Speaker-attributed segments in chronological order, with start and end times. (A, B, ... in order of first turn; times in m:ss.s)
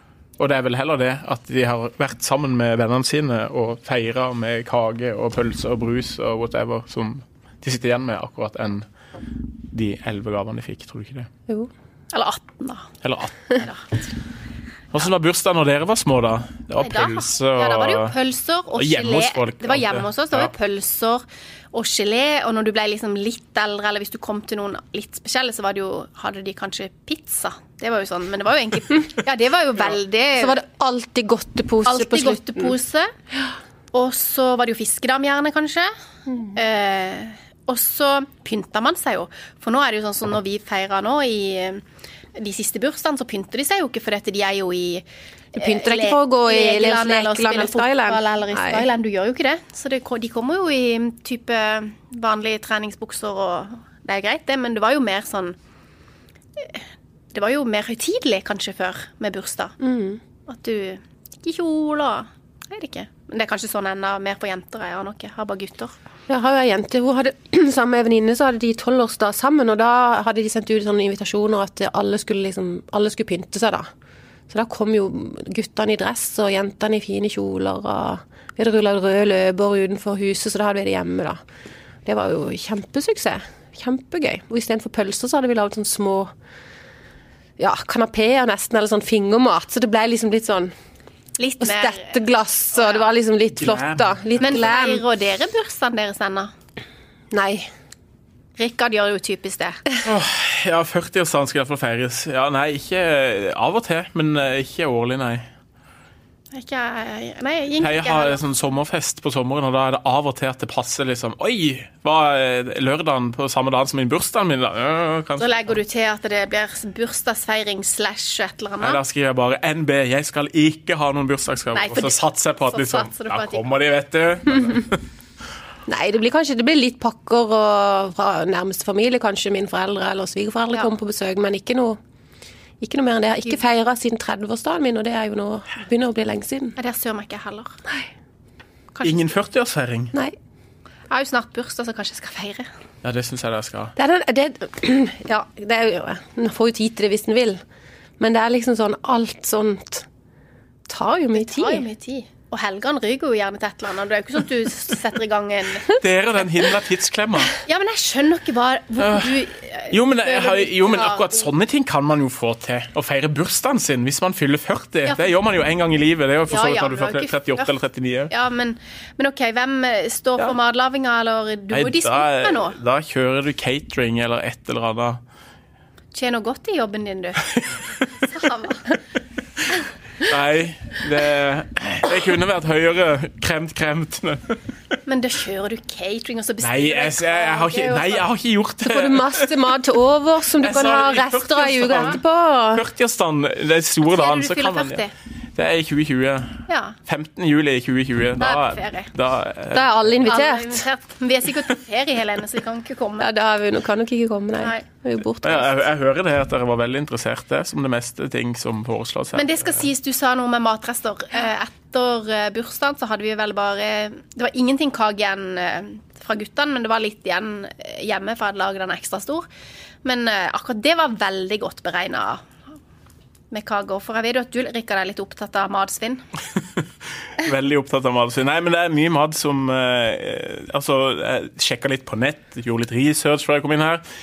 0:00.4-0:08.9 A
0:09.7-0:11.3 A
0:12.1-0:12.9 B
0:13.0-0:13.6 A
0:13.5-0:14.0 B
0:14.9-0:18.1 A
0:16.8-0:30.6 B
0:18.8-0:20.5 A
0:30.4-0:32.7 C
0:31.8-0:33.1 B
0:33.9-0:35.9 B
0:36.5-0:41.8 B
0:42.3-0:45.0 B
0:45.5-0:48.9 C
0:45.6-0:55.6 B
0:56.6-0:59.8 B
0:59.8-1:00.2 C
1:00.5-1:06.0 B
1:06.3-1:13.9 C
1:14.5-1:21.4 C
1:22.0-1:26.3 C
1:27.6-1:30.7 C
1:31.4-1:32.2 B
1:31.6-1:35.0 C
1:32.8-1:33.0 B
1:33.6-1:34.6 A
1:34.4-1:36.5 B
1:37.3-1:37.7 C
1:38.6-1:39.8 B
1:40.0-1:45.5 A
1:46.5-1:48.4 B
1:47.8-1:55.8 A
1:55.4-1:59.0 B
1:58.8-2:05.0 A
2:01.7-2:03.6 B
2:05.9-2:12.0 C
2:12.8-2:16.8 C
2:16.8-2:17.8 B
2:18.9-2:19.2 B
2:19.0-2:20.1 A
2:21.1-2:22.7 B
2:23.0-2:23.9 A
2:24.0-2:27.6 C
2:28.2-2:30.1 C
2:30.9-2:31.8 C
2:31.3-2:35.9 B
2:35.8-2:37.6 A
2:37.6-2:41.5 B
2:39.0-2:48.3 A
2:46.5-2:47.7 B
2:48.3-2:52.8 B
2:51.7-2:55.2 A
2:56.1-2:57.4 B
2:57.4-2:58.1 A
2:58.2-2:58.8 B
3:00.2-3:04.6 A
3:05.1-3:08.2 B
3:06.6-3:09.6 A
3:08.8-3:12.8 C
3:10.6-3:12.2 A
3:12.7-3:20.2 A
3:14.0-3:15.1 B
3:16.7-3:17.0 B
3:18.4-3:19.1 B
3:19.7-3:20.8 C
3:20.2-3:23.3 B
3:23.2-3:25.8 C
3:25.4-3:29.8 A
3:29.3-3:39.4 B
3:40.0-3:42.4 B
3:43.5-3:46.2 B
3:47.4-3:54.0 A